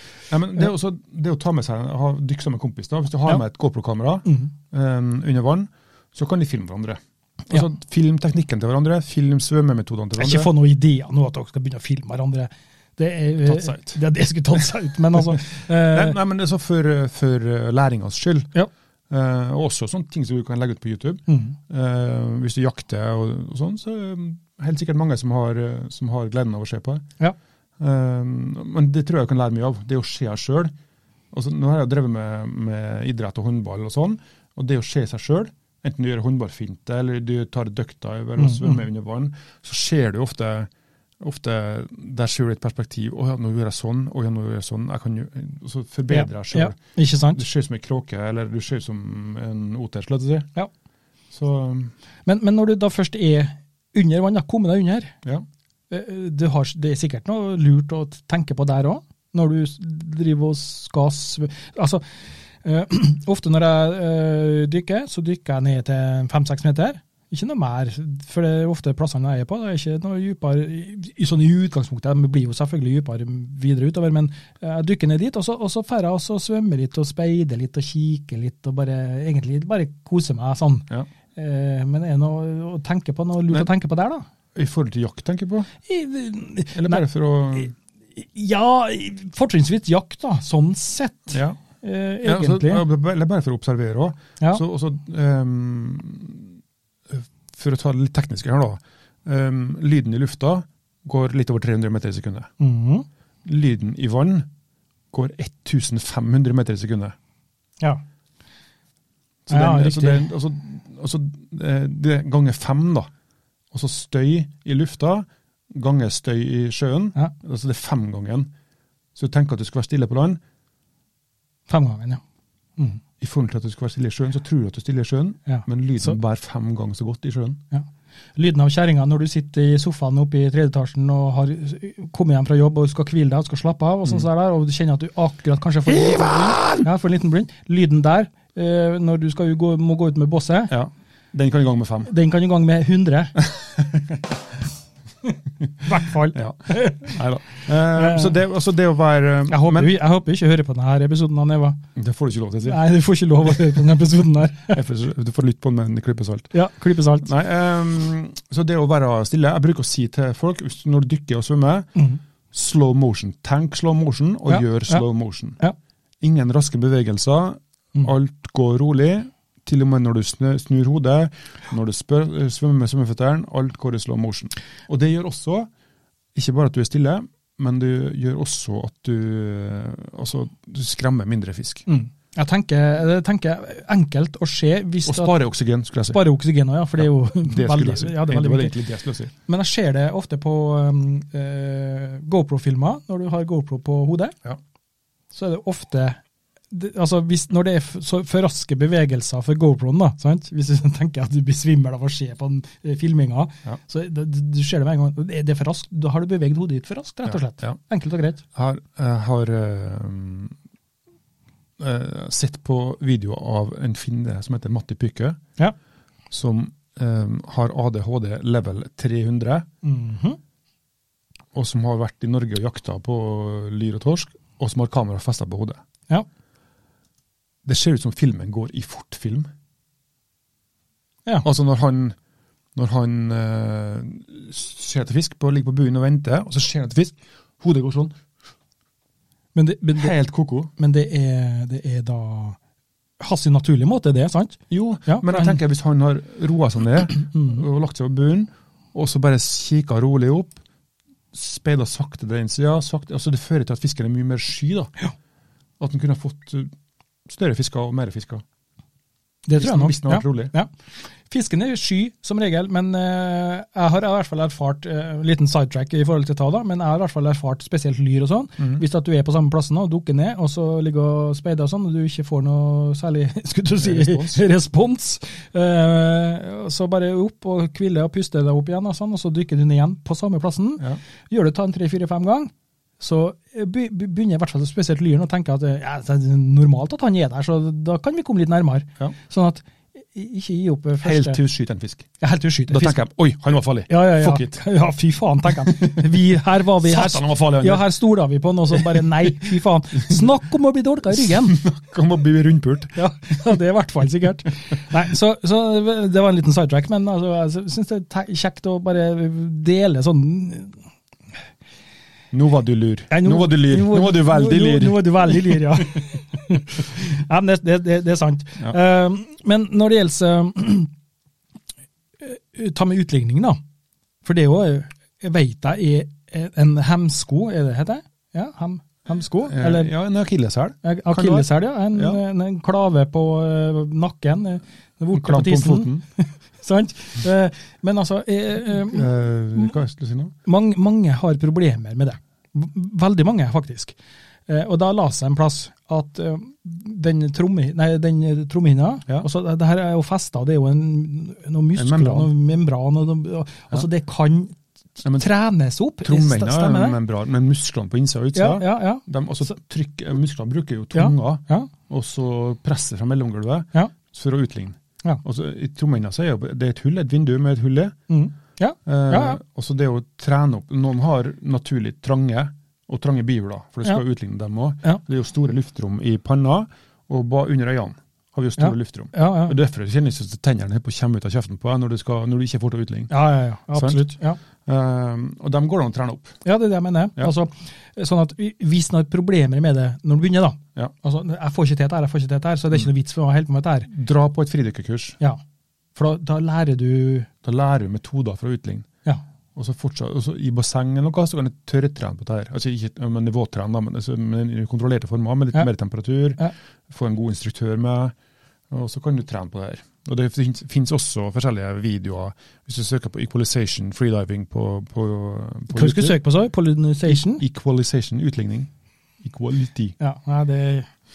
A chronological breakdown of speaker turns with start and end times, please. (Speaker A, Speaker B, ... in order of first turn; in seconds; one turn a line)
Speaker A: 0.3-10.5
Speaker B: 4.3-4.5
Speaker B: 10.2-16.2
Speaker A: 13.4-14.0
Speaker A: 15.9-18.5
Speaker A: 19.1-27.1
Speaker B: 21.3-21.6
Speaker A: 27.8-30.7
Speaker A: 31.3-46.8
Speaker B: 38.4-38.8
Speaker B: 46.1-47.4
Speaker A: 47.3-50.5
Speaker A: 51.3-51.9
Speaker B: 52.3-55.2
Speaker B: 55.9-84.2
Speaker A: 84.5-85.7
Speaker B: 85.8-87.0
Speaker A: 86.7-87.7
Speaker B: 87.5-92.8
Speaker A: 91.3-91.6
Speaker A: 92.2-96.5
Speaker A: 97.1-102.5
Speaker B: 102.6-103.1
Speaker A: 103.5-104.5
Speaker A: 105.1-107.2
Speaker A: 109.5-113.1
Speaker B: 109.5-110.3
Speaker A: 113.7-118.5
Speaker A: 119.2-120.4
Speaker B: 121.7-122.2
Speaker A: 123.2-127.6
Speaker B: 125.5-126.2
Speaker B: 127.7-140.7
Speaker A: 136.1-136.6
Speaker A: 140.7-142.1
Speaker B: 142.1-143.4
Speaker A: 143.5-144.2
Speaker B: 145.8-147.2
Speaker A: 146.3-150.0
Speaker B: 147.9-148.3
Speaker B: 149.5-151.8
Speaker A: 152.0-152.8
Speaker B: 152.7-154.8
Speaker A: 154.7-156.5
Speaker B: 156.5-157.3
Speaker A: 157.2-161.9
Speaker A: 162.5-165.6
Speaker B: 164.5-165.1
Speaker A: 166.2-175.7
Speaker A: 176.3-181.8
Speaker B: 181.9-185.3
Speaker A: 185.1-186.2
Speaker B: 186.1-188.8
Speaker A: 187.0-189.3
Speaker B: 189.5-194.4
Speaker B: 195.3-196.2
Speaker B: 196.7-208.4
Speaker A: 207.2-207.8
Speaker A: 208.5-210.6
Speaker A: 211.8-215.4
Speaker A: 216.3-219.7
Speaker B: 219.8-220.4
Speaker A: 221.5-225.8
Speaker A: 227.7-229.5
Speaker A: 231.4-232.2
Speaker A: 232.8-238.2
Speaker B: 239.6-240.1
Speaker A: 240.0-240.7
Speaker B: 240.8-242.6
Speaker B: 243.2-245.6
Speaker A: 244.7-250.6
Speaker B: 247.3-247.6
Speaker A: 251.3-254.9
Speaker A: 255.8-256.7
Speaker A: 257.3-258.4
Speaker B: 259.5-260.7
Speaker A: 259.6-260.5
Speaker B: 261.3-291.4
Speaker A: 273.8-274.4
Speaker A: 291.0-292.1
Speaker B: 292.2-293.0
Speaker A: 292.7-294.6
Speaker B: 293.9-301.6
Speaker A: 295.7-296.2
Speaker A: 296.8-297.9
Speaker A: 298.7-299.3
Speaker A: 301.2-302.9
Speaker B: 302.9-310.8
Speaker A: 312.3-315.8
Speaker B: 313.1-320.9
Speaker B: 322.2-323.6
Speaker B: 324.2-329.9
Speaker A: 329.4-332.2
Speaker B: 330.8-339.1
Speaker A: 335.1-336.0
Speaker A: 338.7-340.3
Speaker B: 340.4-343.9
Speaker B: 344.5-357.0
Speaker A: 351.8-352.3
Speaker A: 355.0-355.3
Speaker A: 356.0-368.0
Speaker B: 358.4-359.0
Speaker B: 360.9-361.7
Speaker B: 368.1-369.4
Speaker A: 368.9-383.1
Speaker B: 378.6-379.6
Speaker B: 383.1-384.4
Speaker A: 383.7-386.4
Speaker B: 386.4-393.9
Speaker A: 393.9-395.2
Speaker B: 395.9-397.3
Speaker A: 397.4-398.9
Speaker A: 399.6-408.1
Speaker A: 408.7-416.2
Speaker B: 415.7-417.4
Speaker A: 417.1-418.7
Speaker A: 419.2-419.9
Speaker B: 420.0-420.9